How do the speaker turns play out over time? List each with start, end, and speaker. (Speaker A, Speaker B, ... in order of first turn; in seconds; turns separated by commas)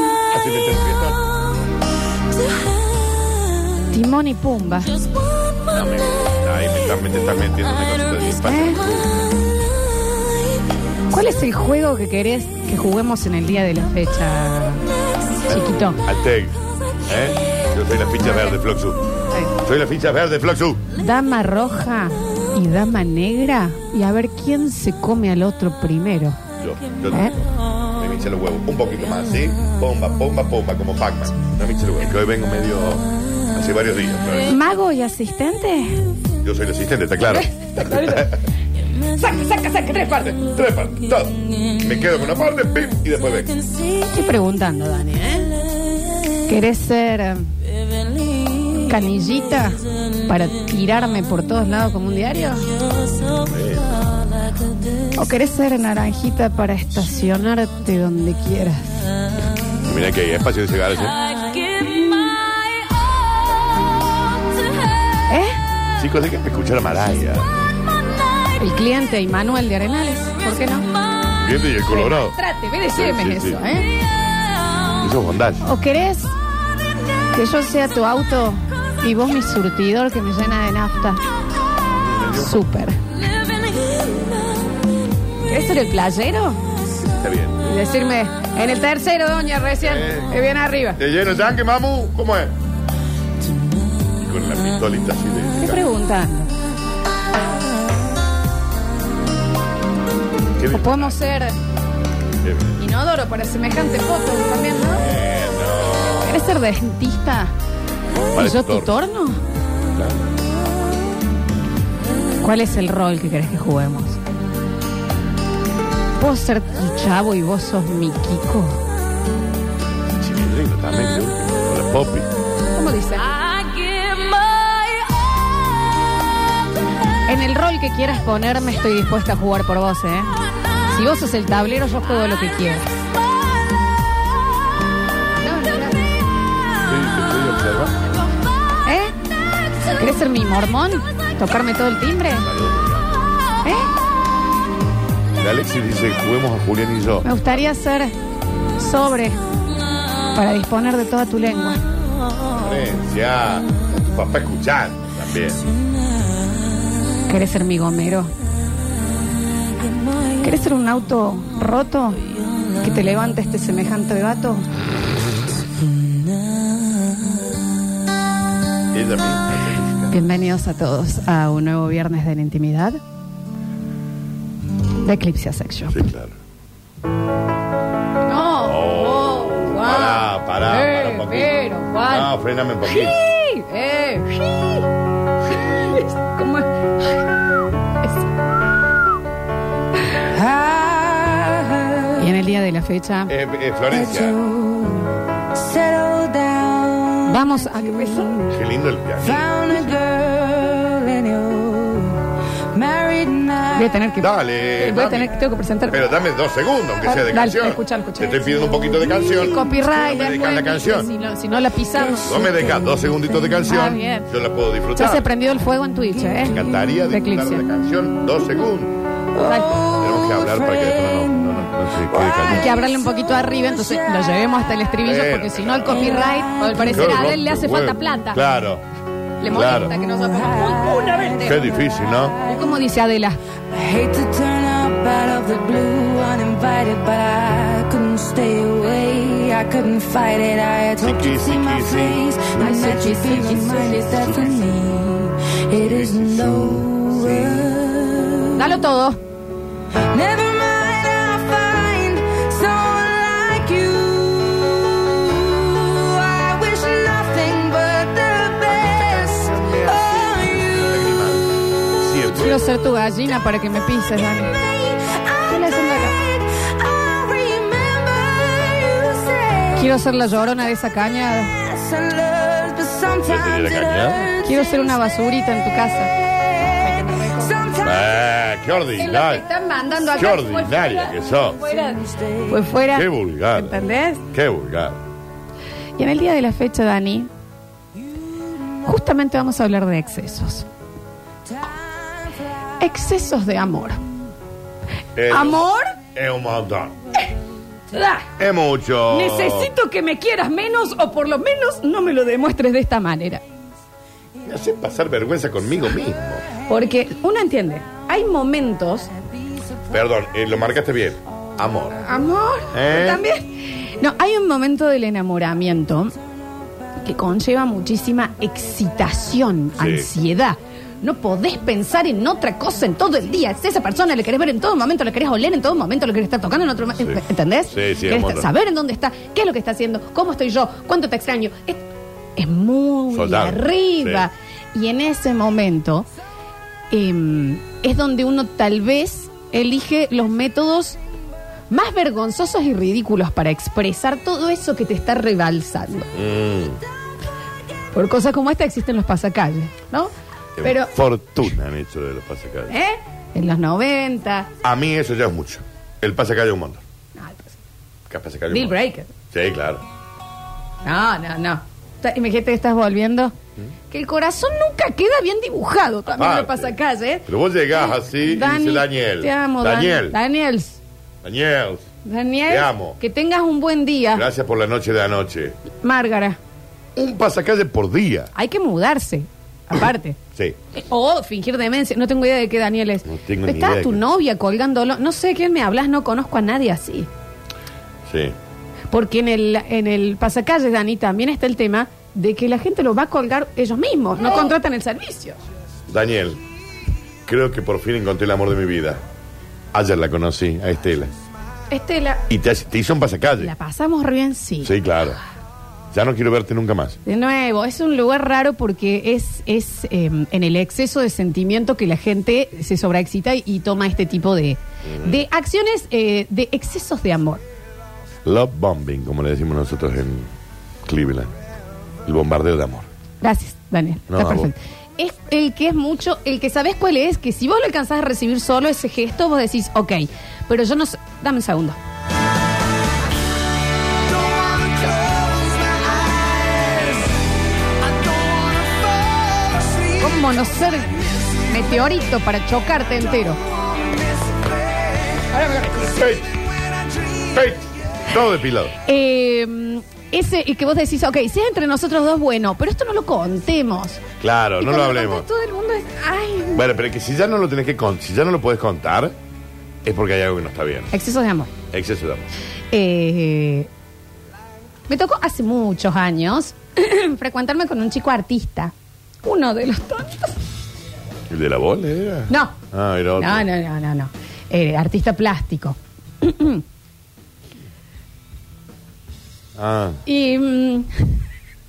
Speaker A: 0.2-1.2, Speaker B: 3.9-5.0, Speaker A: 5.7-9.2, Speaker B: 8.4-8.8, Speaker B: 11.1-14.8, Speaker B: 15.5-16.0, Speaker A: 15.5-19.0, Speaker A: 19.6-20.8, Speaker B: 21.0-26.4, Speaker A: 26.6-34.6, Speaker B: 27.1-27.4, Speaker B: 34.4-36.1, Speaker A: 36.4-38.4, Speaker B: 37.3-38.4, Speaker B: 39.0-40.4, Speaker A: 40.3-43.6, Speaker B: 44.1-45.5, Speaker B: 46.5-47.5, Speaker B: 48.8-52.7, Speaker A: 53.4-54.0, Speaker B: 55.1-59.1, Speaker A: 59.9-61.2, Speaker B: 65.3-65.6, Speaker A: 66.0-67.5, Speaker B: 68.6-70.9, Speaker A: 71.4-72.4, Speaker B: 71.8-73.9, Speaker A: 72.9-73.6, Speaker A: 75.0-75.6, Speaker B: 75.6-76.3, Speaker B: 77.3-81.2, Speaker A: 81.9-82.6, Speaker B: 82.3-83.0, Speaker B: 85.5-86.6, Speaker A: 87.0-87.6, Speaker B: 87.6-91.0, Speaker A: 89.8-90.4, Speaker A: 91.0-92.5, Speaker A: 94.2-95.9, Speaker B: 95.5-96.5, Speaker A: 100.6-101.4, Speaker B: 100.7-101.6, Speaker A: 102.4-102.8, Speaker B: 102.8-105.1, Speaker A: 104.9-106.5, Speaker B: 106.2-107.5, Speaker A: 108.3-109.0, Speaker B: 108.3-109.4, Speaker A: 109.9-110.3, Speaker B: 112.4-114.2, Speaker B: 116.2-118.8, Speaker A: 120.1-122.3, Speaker B: 122.7-123.4, Speaker C: 123.5-124.8, Speaker B: 127.3-130.3, Speaker B: 130.9-133.0, Speaker B: 135.4-136.1, Speaker A: 136.8-138.0, Speaker B: 138.8-139.2, Speaker B: 139.9-142.5, Speaker A: 142.4-143.2, Speaker B: 143.6-143.9, Speaker A: 145.4-147.7, Speaker B: 147.2-148.1, Speaker B: 148.8-149.4, Speaker B: 150.3-151.8, Speaker A: 152.5-155.7, Speaker B: 157.3-158.3, Speaker B: 160.4-164.7, Speaker A: 168.9-170.2, Speaker B: 170.1-173.0, Speaker B: 175.0-176.0, Speaker A: 175.9-176.3, Speaker B: 178.3-182.3, Speaker A: 178.6-183.2, Speaker B: 182.8-184.9, Speaker A: 185.5-186.0, Speaker B: 185.5-186.7, Speaker C: 190.3-192.0, Speaker B: 192.1-193.3, Speaker A: 193.3-194.4, Speaker C: 195.6-197.2, Speaker B: 197.2-198.5, Speaker A: 198.5-199.8, Speaker C: 199.4-203.7, Speaker B: 203.7-206.0, Speaker A: 204.2-205.3, Speaker A: 205.9-211.1, Speaker B: 207.0-208.4, Speaker B: 209.3-212.5, Speaker A: 212.2-215.3, Speaker B: 213.7-214.3, Speaker B: 214.9-217.6, Speaker A: 216.5-219.0, Speaker B: 219.3-220.0, Speaker A: 219.9-222.7, Speaker B: 222.2-228.4, Speaker A: 225.0-226.3, Speaker A: 226.8-228.8, Speaker B: 229.4-231.6, Speaker A: 229.5-229.9, Speaker A: 231.4-232.4, Speaker B: 232.4-233.4, Speaker C: 233.7-248.5, Speaker A: 241.0-244.9, Speaker B: 242.5-244.3, Speaker A: 245.7-247.8, Speaker B: 248.5-249.2, Speaker C: 250.0-254.8, Speaker C: 255.3-259.3, Speaker A: 258.6-262.6, Speaker B: 262.3-264.6, Speaker B: 265.4-266.2, Speaker C: 266.5-269.6, Speaker B: 269.7-271.5, Speaker C: 271.7-274.1, Speaker A: 273.2-274.4, Speaker B: 274.4-277.7, Speaker A: 277.8-279.4, Speaker B: 279.0-284.2, Speaker A: 280.1-281.6, Speaker A: 282.9-285.0, Speaker B: 286.0-287.3, Speaker B: 288.9-290.7, Speaker B: 292.8-294.0, Speaker A: 295.2-297.0, Speaker B: 295.3-296.0, Speaker B: 297.9-298.3, Speaker A: 298.4-299.7, Speaker B: 299.1-303.4, Speaker A: 304.4-306.4, Speaker B: 306.7-309.1, Speaker A: 309.9-312.1, Speaker B: 312.0-316.1, Speaker A: 312.7-313.2, Speaker B: 317.0-331.8, Speaker A: 319.8-320.1, Speaker A: 327.0-328.5, Speaker B: 332.4-336.1, Speaker A: 333.1-334.3, Speaker B: 336.9-341.0, Speaker B: 341.7-346.1, Speaker A: 346.1-346.8, Speaker B: 347.9-350.9, Speaker A: 350.6-352.8, Speaker B: 352.7-354.5, Speaker A: 354.6-356.8, Speaker B: 357.1-357.6, Speaker A: 358.1-358.8, Speaker B: 358.5-359.1, Speaker A: 359.3-359.8, Speaker B: 360.8-363.3, Speaker B: 363.9-370.8, Speaker A: 366.1-366.7, Speaker A: 367.3-370.2, Speaker A: 371.2-371.9, Speaker B: 372.0-374.3, Speaker A: 372.5-373.0, Speaker A: 374.1-375.6, Speaker B: 375.8-376.4, Speaker A: 377.0-378.3, Speaker B: 378.4-380.2, Speaker B: 380.7-387.1, Speaker A: 383.1-384.0, Speaker A: 388.1-388.3, Speaker B: 388.9-395.4, Speaker A: 395.9-396.4, Speaker A: 397.3-399.0, Speaker A: 399.7-401.1, Speaker B: 401.7-402.2, Speaker A: 402.3-403.5, Speaker B: 403.4-404.7, Speaker A: 404.6-405.2, Speaker A: 405.9-407.0, Speaker B: 407.1-417.4, Speaker A: 414.9-415.2, Speaker A: 418.2-420.3, Speaker A: 420.8-421.3, Speaker A: 422.1-422.9, Speaker B: 423.2-431.8, Speaker A: 424.1-424.5, Speaker B: 439.9-443.4, Speaker B: 445.3-445.9, Speaker A: 445.7-446.4, Speaker A: 447.2-448.8, Speaker B: 448.8-454.0, Speaker A: 454.2-455.3, Speaker B: 454.6-456.6, Speaker A: 456.6-459.1, Speaker A: 459.8-460.9, Speaker B: 460.9-461.5, Speaker A: 461.7-462.3, Speaker B: 462.7-463.7, Speaker B: 464.9-470.4, Speaker A: 471.3-473.5, Speaker B: 472.3-472.6, Speaker B: 473.2-476.6, Speaker A: 479.6-480.0, Speaker B: 480.1-481.2